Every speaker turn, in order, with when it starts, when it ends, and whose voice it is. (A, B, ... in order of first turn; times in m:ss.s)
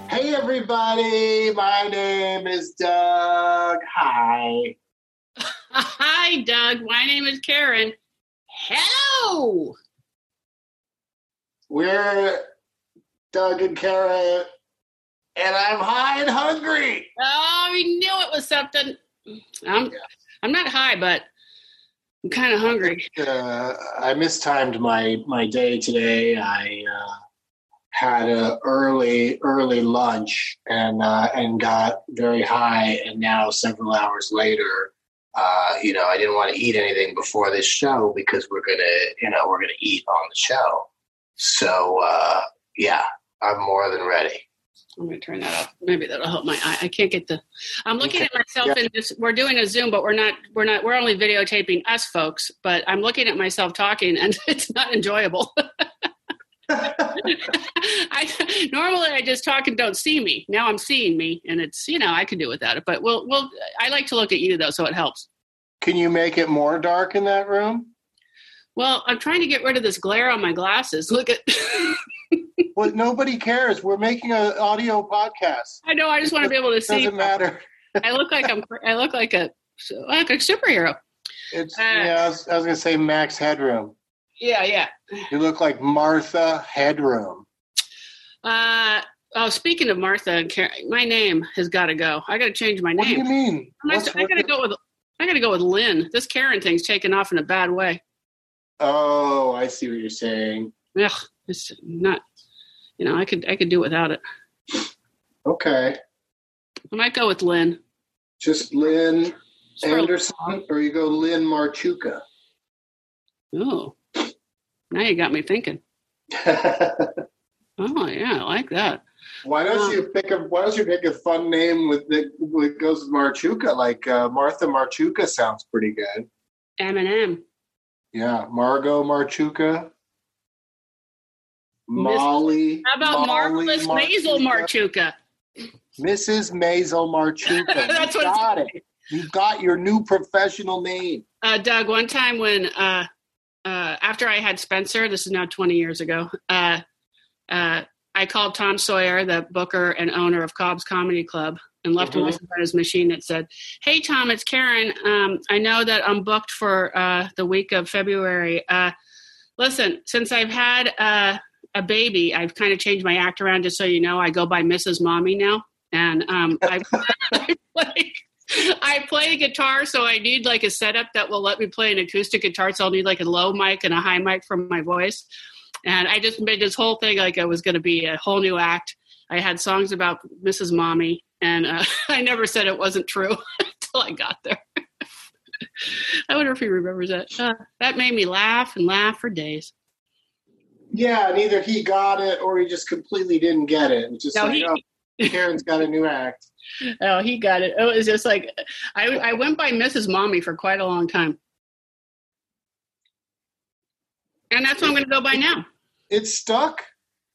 0:00.1-0:04.8 A
0:05.7-0:08.0 B
0:08.5-0:09.8 B
0:11.7-0:12.5 A
0:13.3-0:14.5 A
0:15.4-0:17.1 A
0:17.2-0:19.0 B
0:19.6-0:21.3 B
0:22.2-0:23.1 B
0:22.6-0:27.2 A
0:27.9-0:44.4 A
0:45.0-0:55.5 B
0:48.0-0:48.8 A
0:56.8-1:05.3 B
1:05.8-1:07.9 A
1:08.8-1:12.4 B
1:12.7-1:17.6 A
1:15.8-1:17.4 B
1:18.0-1:21.0 B
1:21.5-1:23.9 A
1:21.8-1:22.2 B
1:24.4-1:24.9 B
1:25.3-1:27.4 A
1:28.4-1:33.3 B
1:33.0-1:34.5 A
1:33.8-1:38.0 B
1:38.8-1:40.7 A
1:40.9-1:42.2 B
1:43.0-1:44.2 B
1:45.4-1:46.0 A
1:46.9-1:47.8 B
1:48.4-1:52.2 A
1:49.8-1:50.6 B
1:53.5-1:54.0 B
1:54.9-1:55.8 B
1:56.3-1:57.1 A
1:57.8-1:59.0 B
1:59.4-2:06.3 A
1:59.7-2:00.0 B
2:06.8-2:07.4 B
2:08.1-2:09.9 A
2:11.9-2:14.7 A
2:12.0-2:15.1 B
2:16.0-2:21.2 A
2:17.5-2:18.8 B
2:21.4-2:23.1 B
2:23.6-2:26.8 B
2:27.5-2:38.9 B
2:32.0-2:32.4 A
2:39.6-2:55.2 B
2:55.8-3:04.6 B
3:06.3-3:09.7 B
3:10.9-3:16.5 A
3:14.3-3:15.4 B
3:17.0-3:21.4 B
3:24.5-3:25.6 B
3:26.1-3:26.9 A